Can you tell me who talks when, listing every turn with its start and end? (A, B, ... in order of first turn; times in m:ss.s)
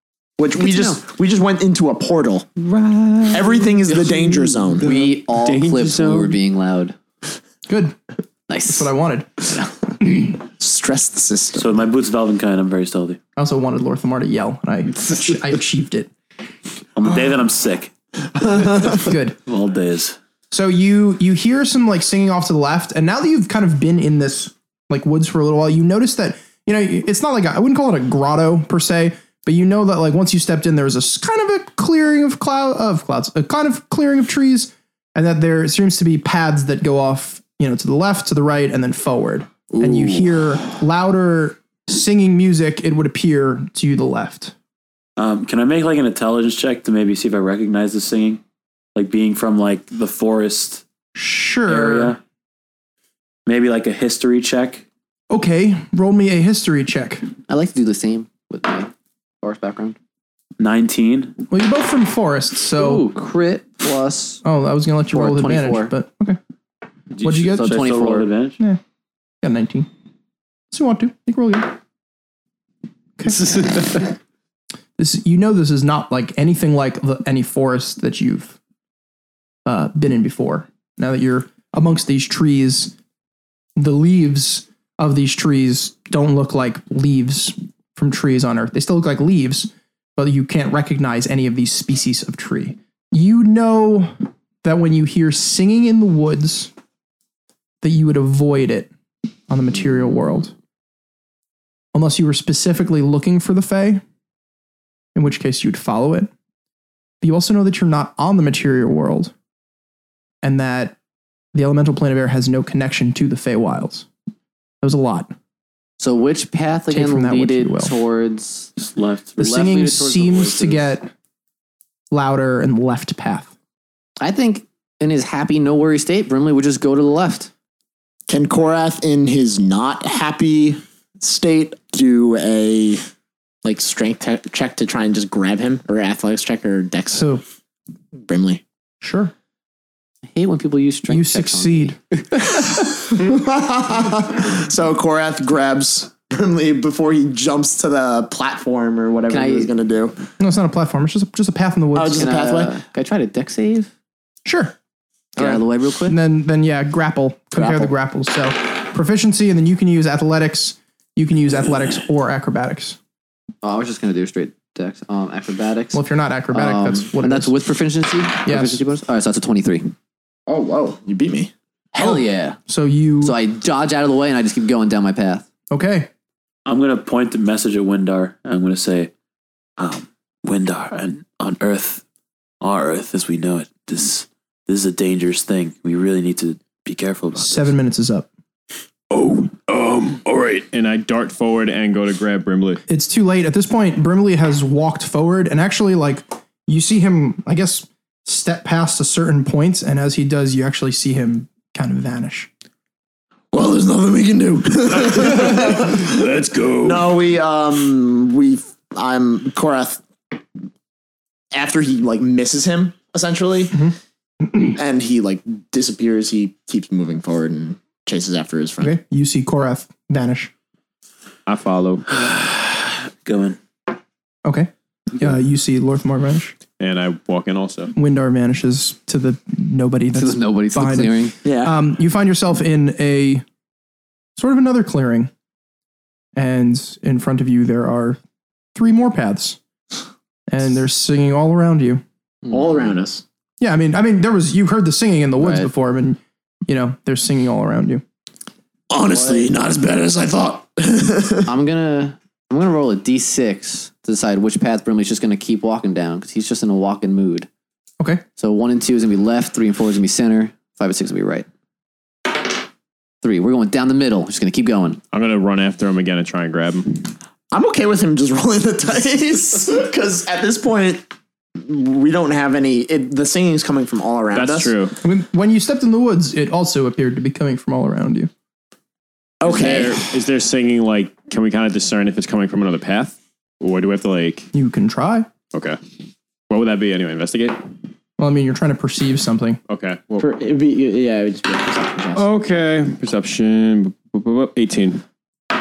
0:00.4-0:02.5 A
0:00.6-0:01.0 B
0:02.7-0:07.0 B
0:03.3-0:04.9 A
0:05.3-0:06.4 C
0:07.7-0:08.0 D
0:08.5-0:08.9 B
0:08.7-0:09.5 D
0:10.0-0:10.3 D
0:10.5-0:11.7 A
0:11.5-0:13.2 E
0:13.4-0:16.1 D
0:17.0-0:17.9 E
0:18.5-0:18.8 A
0:18.7-0:20.2 E
0:18.9-0:19.4 D
0:20.5-0:44.5 D
0:45.2-0:48.4 E
0:48.9-0:50.8 E
0:51.1-0:52.2 D
0:51.7-0:52.2 E
0:53.4-0:54.8 E
0:55.3-0:57.2 D
0:57.5-1:00.0 B
1:00.6-1:01.4 E
1:01.5-1:03.1 D
1:02.8-1:04.4 B
1:04.4-1:06.4 D
1:05.1-1:05.9 B
1:07.1-1:08.6 E
1:07.2-1:07.8 D
1:07.5-1:08.3 B
1:09.4-1:09.9 D
1:10.7-1:11.8 D
1:13.2-1:14.1 D
1:15.0-1:18.6 D
1:19.6-1:22.9 D
1:23.8-1:36.7 D
1:37.8-1:38.9 D
1:39.5-1:40.5 D
1:41.9-1:44.0 D
1:45.1-1:46.3 D
1:47.2-1:49.3 D
1:50.4-1:51.0 D
1:51.5-1:54.1 D
1:54.8-1:55.3 D
1:56.0-1:58.7 B
1:56.9-1:57.9 D
1:58.8-1:59.4 E
1:59.4-2:01.1 D
1:59.4-2:00.9 B
2:02.1-2:03.5 D
2:04.2-2:07.5 B
2:08.3-2:13.0 A
2:13.6-2:17.2 A
2:17.1-2:17.4 D
2:18.2-2:18.6 A
2:19.0-2:19.3 D
2:20.3-2:22.6 B
2:21.1-2:22.0 D
2:23.1-2:30.2 A
2:29.3-2:29.7 B
2:30.4-2:32.3 D
2:31.9-2:32.7 A
2:32.1-2:33.9 B
2:34.4-2:34.7 D
2:35.4-2:36.2 B
2:35.4-2:43.0 D
2:37.6-2:37.9 B
2:43.6-2:46.0 B
2:45.9-2:47.5 D
2:46.5-2:49.9 B
2:48.4-2:48.8 D
2:50.5-2:51.5 A
2:51.9-2:52.6 B
2:52.0-2:53.4 D
2:53.2-2:55.4 B
2:55.7-2:56.1 D
2:56.6-2:59.1 E
2:59.8-3:02.0 E
3:02.6-3:07.7 E
3:07.4-3:08.3 D
3:09.1-3:10.6 F
3:10.7-3:12.8 C
3:12.9-3:22.5 D
3:23.5-3:26.2 A
3:25.0-3:27.1 F
3:26.8-3:30.0 A
3:31.5-3:33.8 A
3:33.7-3:34.8 D
3:34.7-3:39.0 A
3:38.8-3:40.5 D
3:41.4-3:42.0 C
3:42.1-3:43.6 E
3:44.4-3:46.5 D
3:46.8-3:47.9 C
3:47.9-3:53.4 D
3:50.2-3:51.3 B
3:51.4-3:51.7 A
3:54.4-3:55.3 D
3:56.3-3:58.2 D
3:58.7-3:59.6 D
4:00.5-4:02.0 D
4:02.5-4:03.2 A
4:03.6-4:08.0 D
4:05.4-4:05.7 B
4:08.9-4:11.5 A
4:09.1-4:09.5 B
4:11.4-4:17.5 B
4:18.4-4:21.4 B
4:23.2-4:25.0 B
4:25.1-4:27.1 C
4:27.5-4:31.0 A
4:31.6-4:34.8 A
4:34.3-4:35.0 C
4:35.0-4:38.3 D
4:39.4-4:40.1 A
4:39.4-4:44.5 C
4:44.5-4:45.3 D
4:45.5-4:45.8 C
4:46.5-4:47.6 C
4:48.2-4:49.6 D
4:49.7-4:50.3 C
4:50.2-4:52.3 A
4:52.1-4:55.0 C